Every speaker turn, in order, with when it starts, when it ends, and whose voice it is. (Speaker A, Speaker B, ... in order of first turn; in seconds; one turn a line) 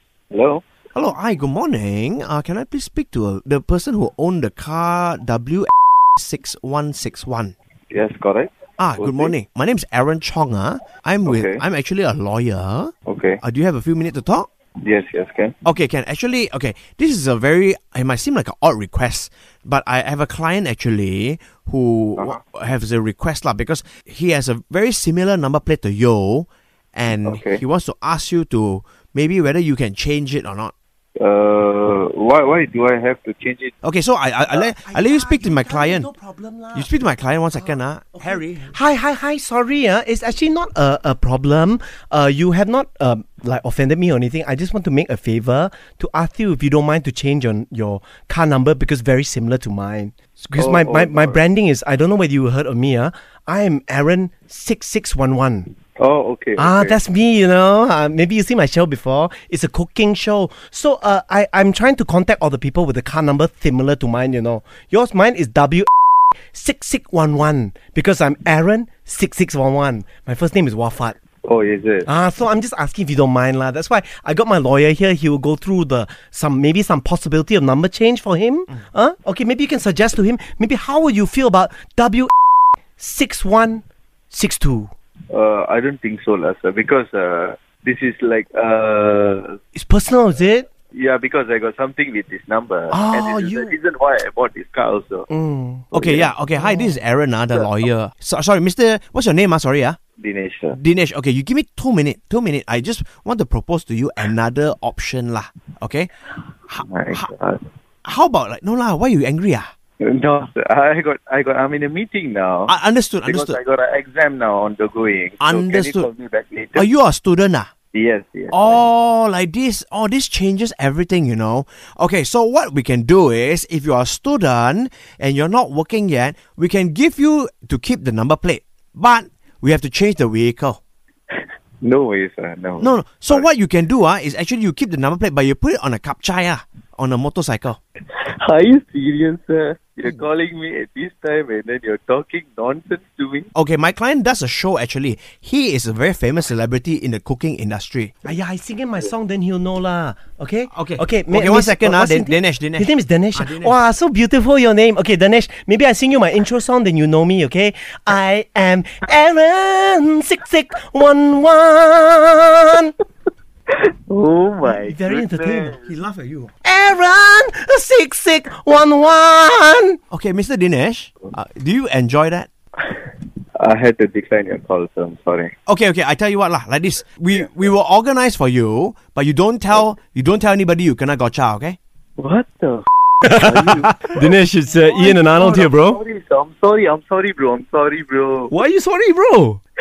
Speaker A: 0.3-0.6
Speaker B: 0.9-7.5
Speaker A: 7.9-9.3
Speaker B: 8.8-14.5
Speaker A: 11.2-11.6
Speaker A: 13.1-13.4
Speaker A: 14.8-15.5
Speaker B: 15.6-30.7
Speaker A: 27.2-27.6
Speaker A: 31.2-33.7
Speaker B: 33.8-36.1
Speaker C: 34.6-36.9
Speaker B: 36.7-38.8
Speaker C: 37.5-55.7
Speaker A: 50.5-51.4
Speaker A: 56.0-57.0
Speaker C: 56.6-65.9
Speaker C: 66.5-71.2
Speaker A: 71.4-72.1
Speaker C: 72.0-82.3
Speaker C: 83.0-84.9
Speaker A: 85.3-89.6
Speaker C: 89.7-90.7
Speaker A: 90.9-95.3
Speaker C: 92.9-93.7
Speaker C: 95.3-96.9
Speaker B: 95.9-100.0
Speaker A: 96.0-96.2
Speaker A: 100.2-100.8
Speaker B: 100.7-106.1
Speaker B: 106.7-107.3
Speaker A: 106.8-107.6
Speaker B: 108.0-109.7
Speaker A: 110.0-112.7
Speaker B: 112.7-113.6
Speaker A: 113.2-116.9
Speaker B: 115.4-116.1
Speaker B: 116.8-117.7
Speaker A: 117.9-118.9
Speaker B: 118.5-130.8
Speaker A: 131.3-133.5
Speaker B: 132.8-137.8
Speaker A: 138.1-143.5
Speaker B: 143.5-148.2
Speaker C: 148.2-162.9
Speaker B: 150.7-153.8
Speaker A: 163.7-165.9
Speaker C: 164.6-165.8
Speaker B: 165.8-166.5
Speaker C: 166.6-170.0
Speaker B: 170.1-172.5
Speaker A: 172.8-175.5
Speaker B: 175.7-181.8
Speaker A: 182.2-184.2
Speaker C: 183.2-186.0
Speaker A: 184.7-188.5
Speaker C: 188.5-189.6